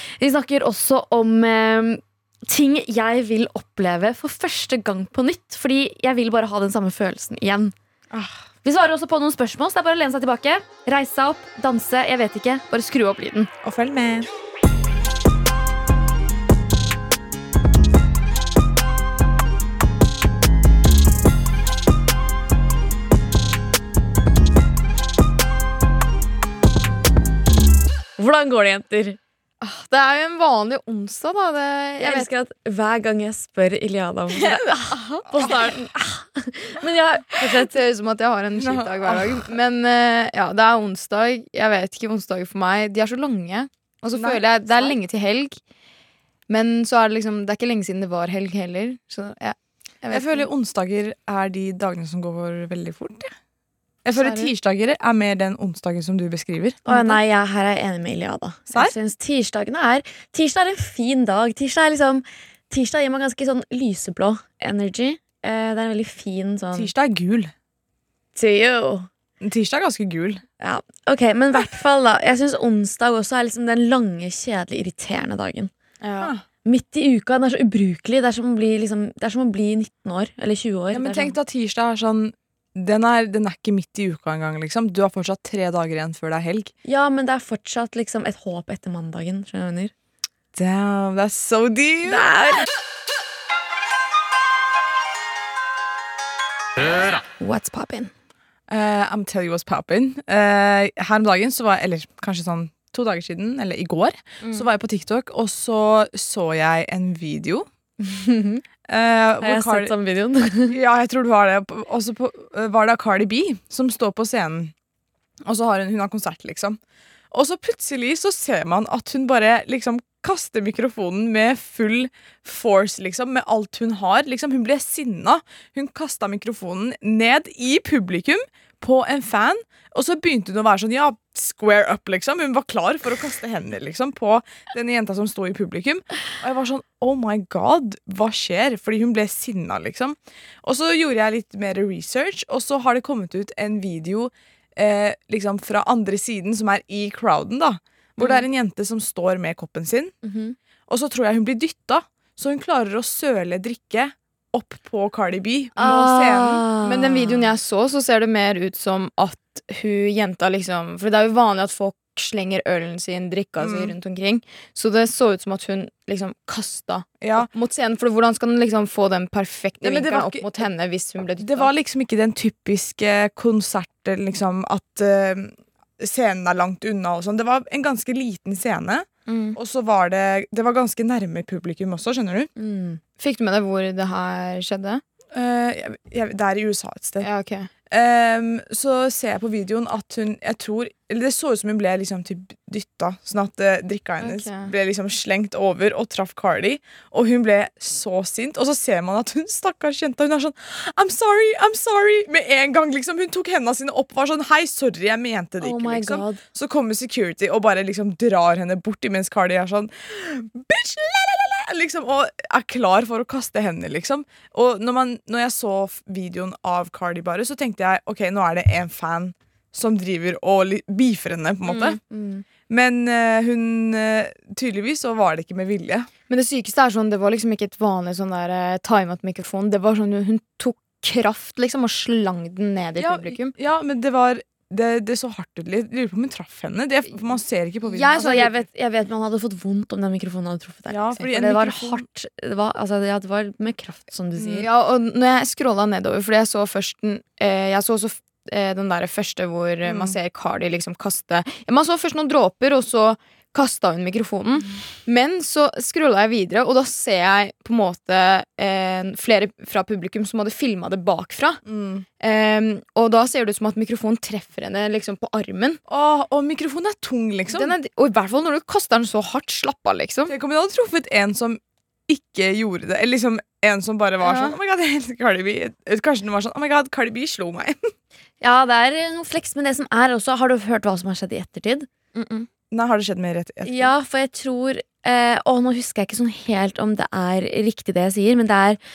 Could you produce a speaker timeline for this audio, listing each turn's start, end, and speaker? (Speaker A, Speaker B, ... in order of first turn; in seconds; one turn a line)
Speaker A: 0.2-7.7
Speaker B: 8.1-8.4
Speaker A: 8.6-13.5
Speaker B: 13.6-14.3
Speaker A: 28.2-29.2
Speaker C: 29.6-32.3
Speaker A: 32.0-37.7
Speaker C: 34.3-35.7
Speaker C: 37.4-45.6
Speaker B: 38.6-39.5
Speaker B: 44.1-44.4
Speaker C: 46.5-50.5
Speaker B: 50.1-53.3
Speaker B: 54.0-57.2
Speaker C: 54.1-54.5
Speaker A: 56.9-66.9
Speaker B: 66.7-67.5
Speaker A: 68.3-69.1
Speaker B: 69.4-70.4
Speaker A: 70.6-75.7
Speaker C: 76.0-76.3
Speaker A: 76.6-81.3
Speaker B: 80.9-86.7
Speaker A: 86.8-89.9
Speaker B: 90.5-92.2
Speaker A: 92.0-92.7
Speaker A: 97.1-98.1
Speaker B: 98.7-107.7
Speaker C: 104.4-104.7
Speaker A: 108.0-108.6
Speaker B: 108.9-109.9
Speaker A: 109.4-110.7
Speaker B: 110.7-114.7
Speaker B: 115.4-116.8
Speaker B: 117.3-150.1
Speaker A: 150.2-150.6
Speaker B: 150.9-156.7
Speaker A: 155.8-157.4
Speaker C: 156.8-171.7
Speaker B: 163.6-163.9
Speaker B: 167.2-167.5
Speaker B: 169.8-170.7
Speaker B: 171.4-182.5
Speaker C: 179.3-179.6
Speaker A: 182.6-183.0
Speaker C: 183.2-185.0
Speaker B: 185.3-187.3
Speaker C: 187.2-187.7
Speaker B: 187.9-222.0
Speaker C: 194.2-194.7
Speaker A: 205.6-206.4
Speaker A: 222.0-222.4
Speaker B: 222.7-226.1
Speaker C: 226.3-233.5
Speaker B: 233.0-238.2
Speaker C: 237.8-238.6
Speaker A: 238.1-244.7
Speaker B: 240.9-242.0
Speaker C: 244.5-261.6
Speaker B: 249.8-250.2
Speaker B: 261.6-262.1
Speaker C: 262.2-265.8
Speaker B: 265.9-267.7
Speaker C: 267.5-270.3
Speaker B: 270.3-277.8
Speaker C: 274.2-274.6
Speaker A: 278.4-281.9
Speaker C: 282.1-282.5
Speaker B: 282.7-283.9
Speaker A: 283.6-288.8